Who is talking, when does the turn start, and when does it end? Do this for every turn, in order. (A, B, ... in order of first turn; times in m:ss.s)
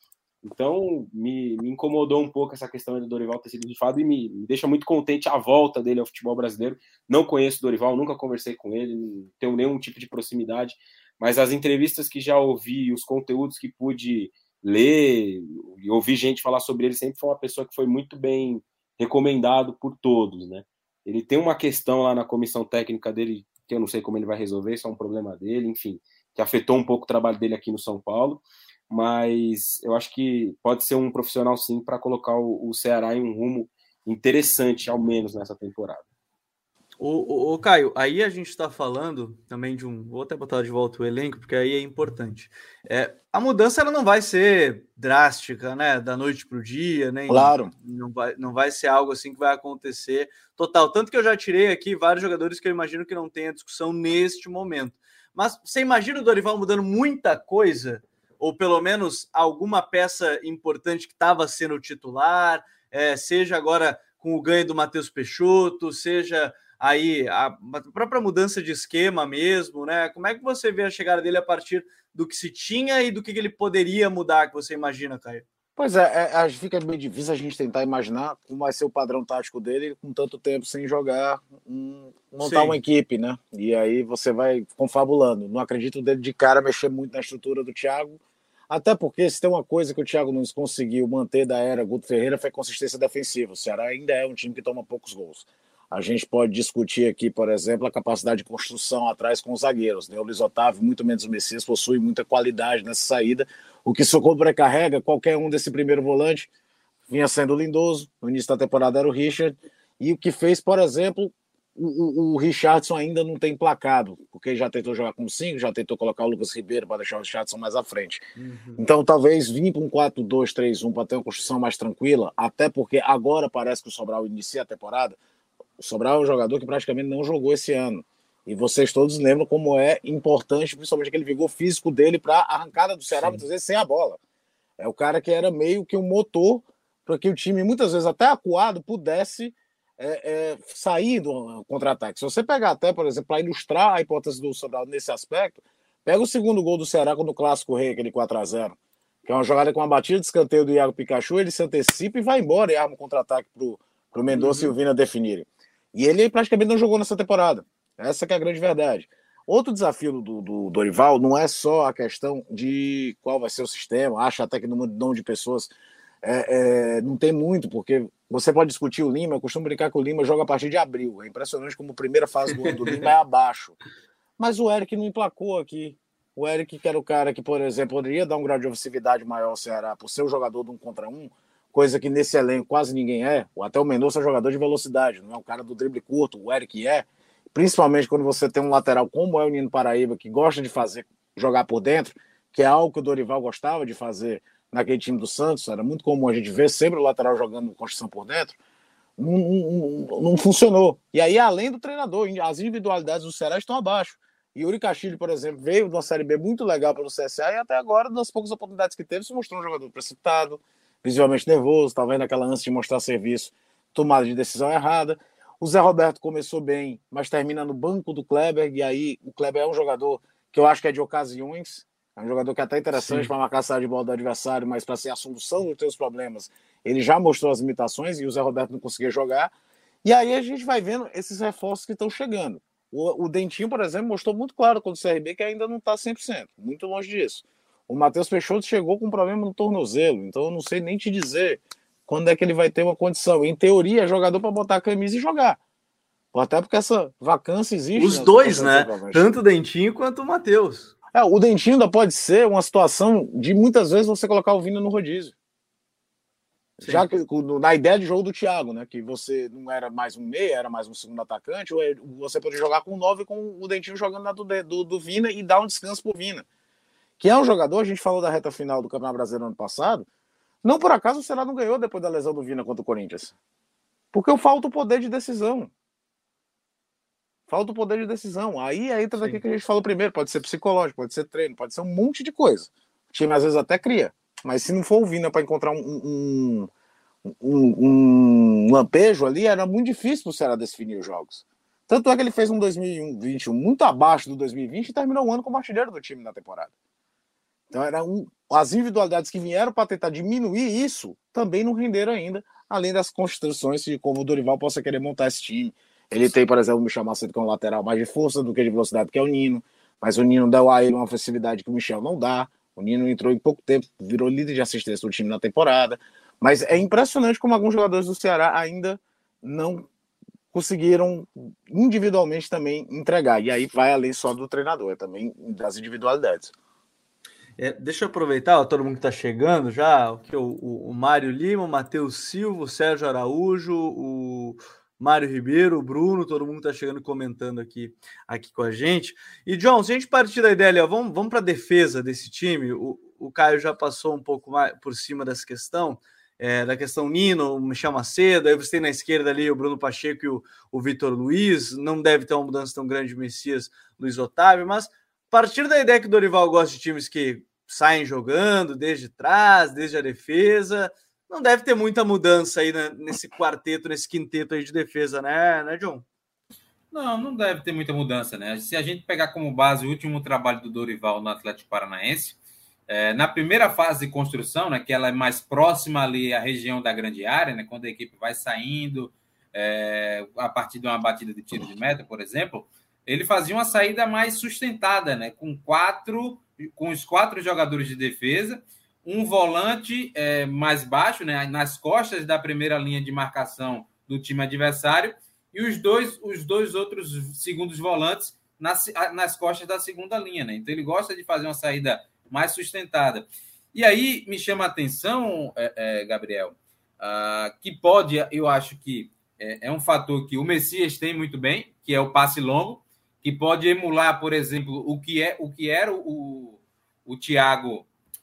0:00.4-0:36.0 A
0:37.0-1:15.5 B
0:47.3-0:47.7 C
1:15.8-1:46.5 C
1:22.4-1:22.8 B
1:47.1-1:58.2 C
1:58.4-1:58.8 B
1:58.8-2:05.2 C
2:05.8-2:14.2 C
2:13.1-2:13.4 B
2:14.8-2:45.7 C
2:34.3-2:34.7 B
2:46.2-2:53.8 C
2:52.6-2:53.1 B
2:54.4-3:18.6 C
3:19.2-3:49.5 C
3:42.9-3:43.3 B
3:50.0-4:05.6 C
4:06.3-4:09.3 C
4:08.0-4:10.9 B
4:11.1-4:15.3 C
4:16.8-4:26.5 C
4:16.8-4:17.1 B
4:27.2-4:30.1 C
4:30.6-4:33.4 C
4:34.1-4:35.7 C
4:37.5-4:46.7 C
4:47.2-4:56.7 C
4:57.7-5:19.9 C
5:20.5-5:26.5 C
5:27.6-6:06.0 B
6:06.9-6:57.9 D